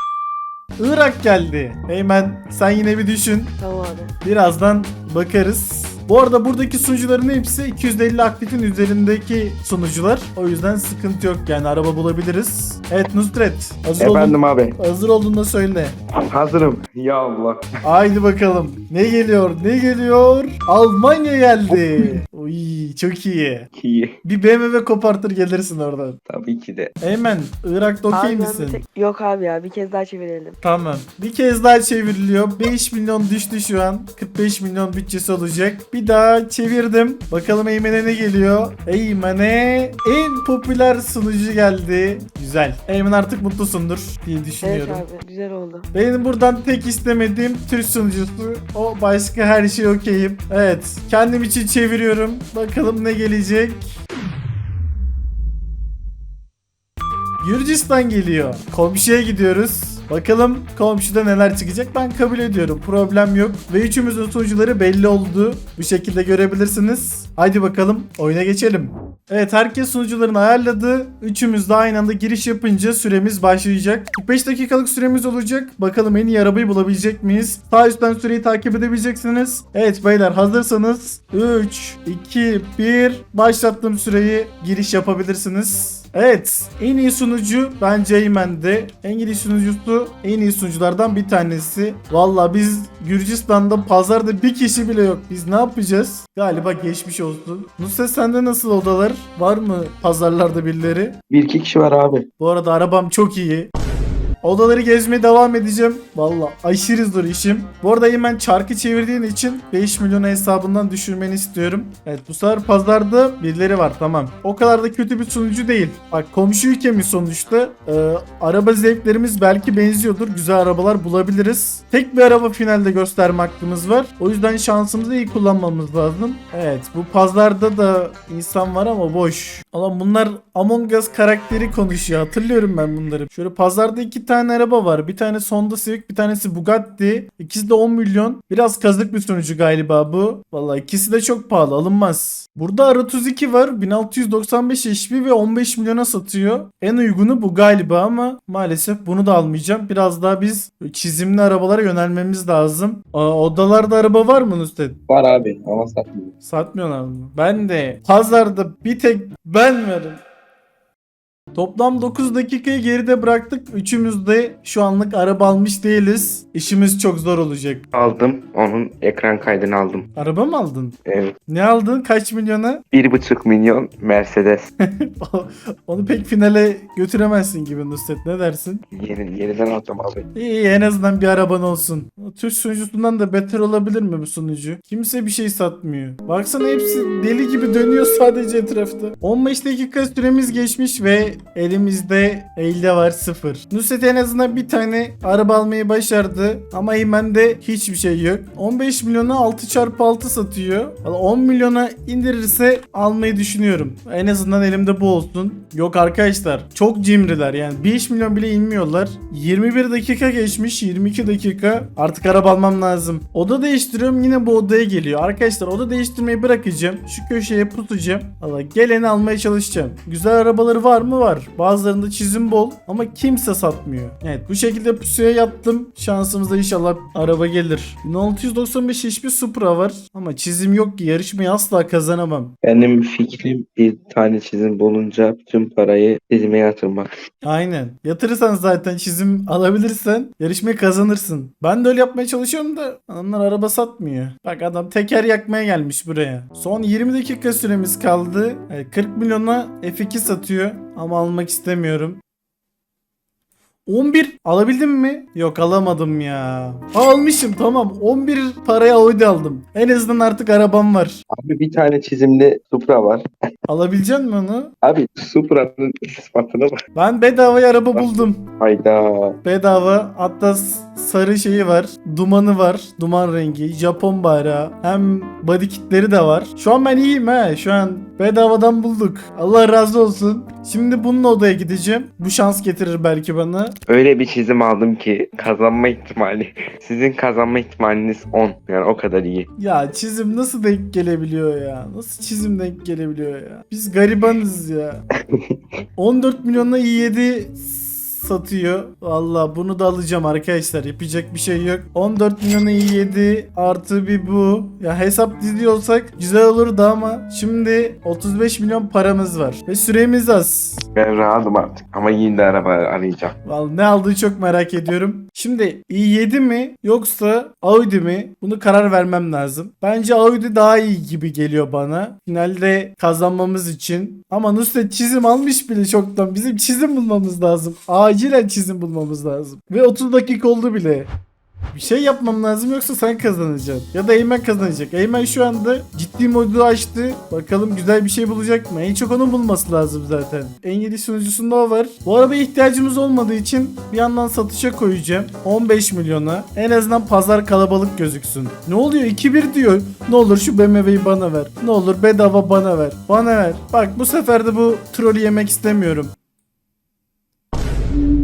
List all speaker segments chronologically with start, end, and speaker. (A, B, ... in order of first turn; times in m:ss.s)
0:00.8-0:03.5 A
0:03.6-0:04.1 B
0:04.2-0:16.0 A
0:14.0-0:14.8 C
0:16.2-0:17.6 C
0:17.8-0:23.7 A
0:21.7-0:22.2 C
0:23.8-0:24.2 C
0:24.2-0:26.2 A
0:26.3-0:26.9 C
0:27.0-0:28.8 A
0:28.1-0:30.6 B
0:30.6-0:45.0 A
0:44.6-0:45.9 B
0:45.9-0:54.0 A
0:57.4-1:41.2 A
1:41.3-1:42.3 C
1:42.4-1:43.7 A
1:44.4-2:35.0 A
2:35.1-2:36.3 C
2:36.4-2:40.2 A
2:41.5-2:47.9 A
2:47.9-2:50.1 C
2:50.2-2:51.0 A
2:51.1-2:51.4 C
2:51.5-2:52.8 A
2:52.9-2:54.7 C
2:54.8-2:58.8 A
2:58.9-3:00.3 C
3:00.4-3:52.5 A
3:52.6-3:57.1 C
3:57.4-4:12.2 A
4:13.9-4:21.2 A
4:21.3-4:23.2 C
4:23.7-4:24.7 A
4:24.8-4:26.8 C
4:27.0-4:28.5 A
4:27.9-4:29.4 C
4:29.4-4:43.8 A
4:43.9-4:49.5 C
4:49.6-4:55.0 A
4:56.0-5:10.9 A
5:11.0-5:13.4 C
5:13.4-5:31.1 A
5:31.7-5:56.1 A